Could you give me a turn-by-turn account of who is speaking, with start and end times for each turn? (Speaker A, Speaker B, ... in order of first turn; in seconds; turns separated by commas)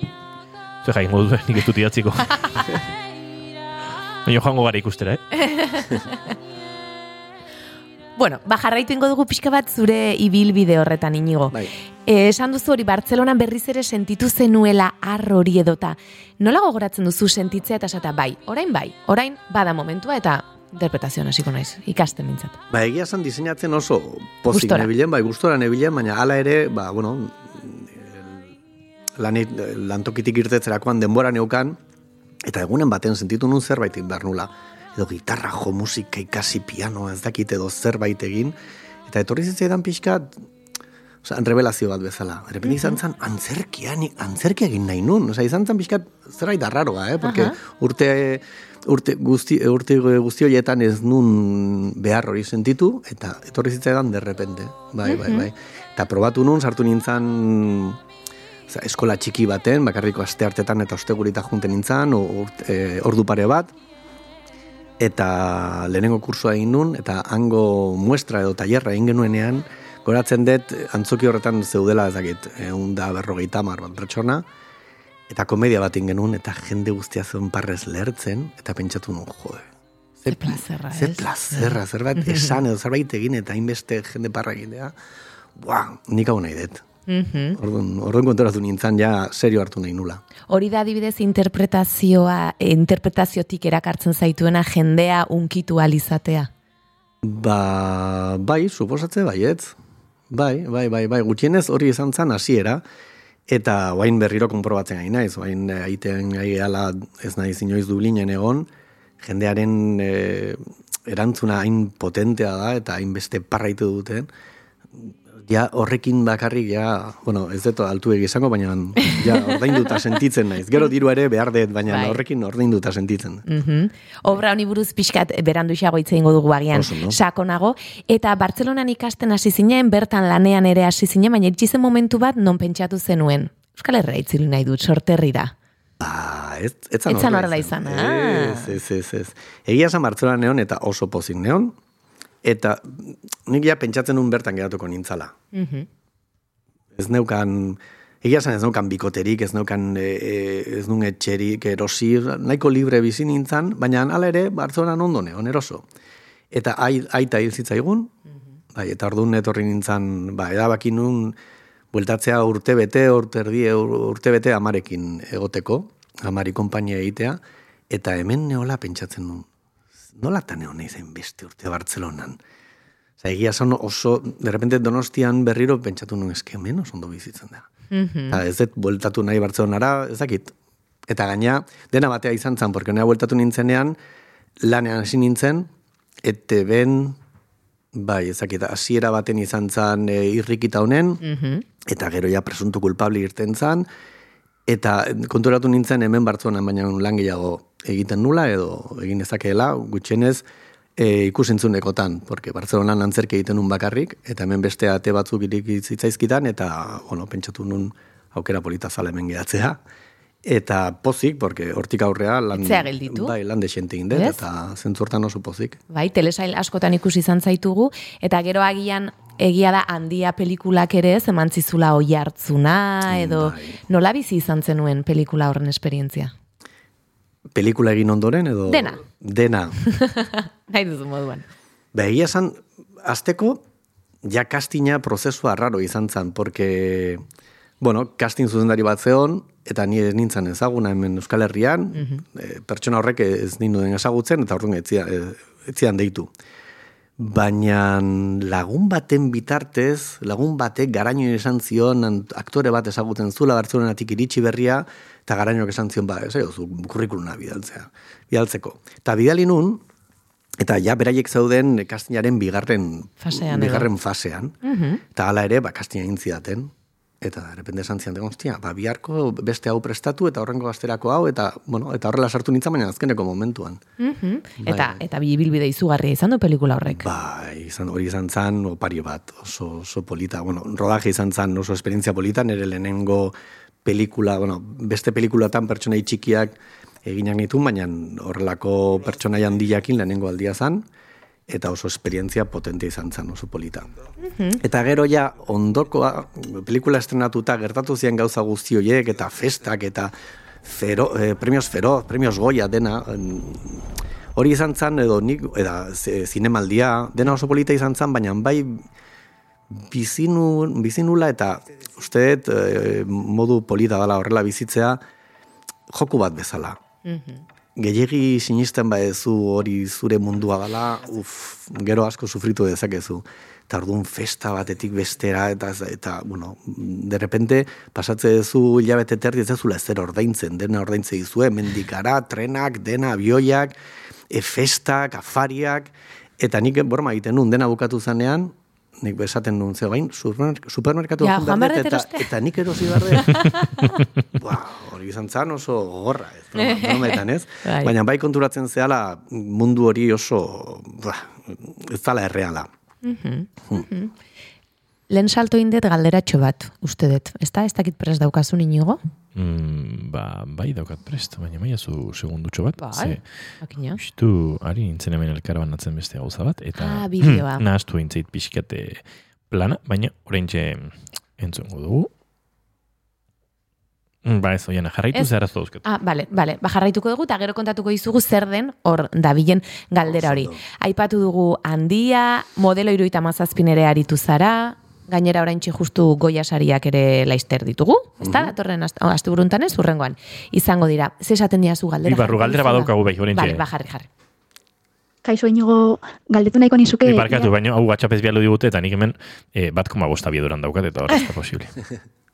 Speaker A: 0.8-2.8, Speaker A: 4.2-5.2, Speaker B: 5.4-6.1, Speaker B: 8.2-22.6, Speaker C: 22.7-28.4, Speaker B: 24.5-24.9, Speaker C: 29.2-31.8, Speaker C: 32.4-38.5, Speaker C: 39.1-40.4, Speaker C: 41.2-58.0, Speaker B: 42.6-43.0, Speaker B: 47.2-47.6, Speaker B: 55.0-55.5, Speaker C: 58.7-63.7, Speaker C: 65.0-74.5, Speaker C: 75.3-79.7, Speaker C: 80.2-85.0, Speaker B: 80.3-82.5, Speaker C: 85.5-86.8, Speaker B: 87.1-87.6, Speaker C: 87.6-90.2, Speaker B: 90.5-96.5, Speaker C: 97.2-99.8, Speaker C: 100.3-102.8, Speaker C: 103.5-108.7, Speaker C: 109.2-114.3, Speaker C: 115.0-123.4, Speaker B: 119.0-119.5, Speaker B: 121.9-122.2, Speaker B: 123.5-135.5, Speaker C: 126.7-127.2, Speaker C: 136.0-141.8, Speaker B: 137.1-138.8, Speaker C: 142.4-145.3, Speaker B: 145.5-145.9, Speaker C: 146.9-155.8, Speaker C: 156.5-158.1, Speaker C: 158.7-161.4, Speaker C: 161.9-169.5, Speaker C: 170.1-172.4, Speaker C: 173.2-177.7, Speaker B: 177.9-178.4, Speaker C: 178.3-180.5, Speaker C: 181.1-184.0, Speaker C: 184.6-185.7, Speaker C: 186.2-187.2, Speaker C: 187.9-191.2, Speaker B: 191.2-191.6, Speaker C: 191.8-193.9, Speaker C: 194.7-200.4, Speaker C: 201.0-209.8, Speaker C: 210.4-215.8, Speaker B: 212.5-213.3, Speaker B: 214.1-214.4, Speaker B: 215.9-226.3, Speaker C: 223.1-223.8, Speaker C: 227.5-229.8, Speaker B: 228.7-229.0, Speaker B: 229.8-231.4, Speaker C: 231.9-233.6, Speaker C: 234.2-237.2, Speaker C: 237.8-246.3, Speaker B: 241.9-242.2, Speaker C: 247.2-259.8, Speaker C: 260.6-264.5, Speaker B: 263.2-263.9, Speaker B: 264.6-265.0, Speaker C: 265.1-273.8, Speaker B: 274.0-277.1, Speaker C: 274.6-275.0, Speaker C: 276.9-290.9, Speaker C: 291.5-293.9, Speaker B: 294.2-294.6, Speaker C: 294.6-303.8, Speaker C: 304.3-308.8, Speaker C: 309.7-315.0, Speaker C: 315.9-316.8, Speaker B: 317.1-317.4, Speaker C: 317.8-333.7, Speaker C: 334.3-343.6, Speaker B: 341.2-344.0, Speaker C: 344.3-352.7, Speaker B: 346.6-347.9, Speaker B: 353.0-354.1, Speaker B: 355.1-359.0, Speaker A: 359.4-363.2, Speaker B: 362.8-364.0, Speaker A: 364.0-372.1, Speaker B: 366.8-367.6, Speaker A: 374.2-375.8, Speaker B: 375.8-394.1, Speaker C: 380.1-380.6, Speaker C: 388.2-388.5, Speaker A: 392.0-393.6, Speaker D: 395.2-397.5, Speaker A: 397.0-401.8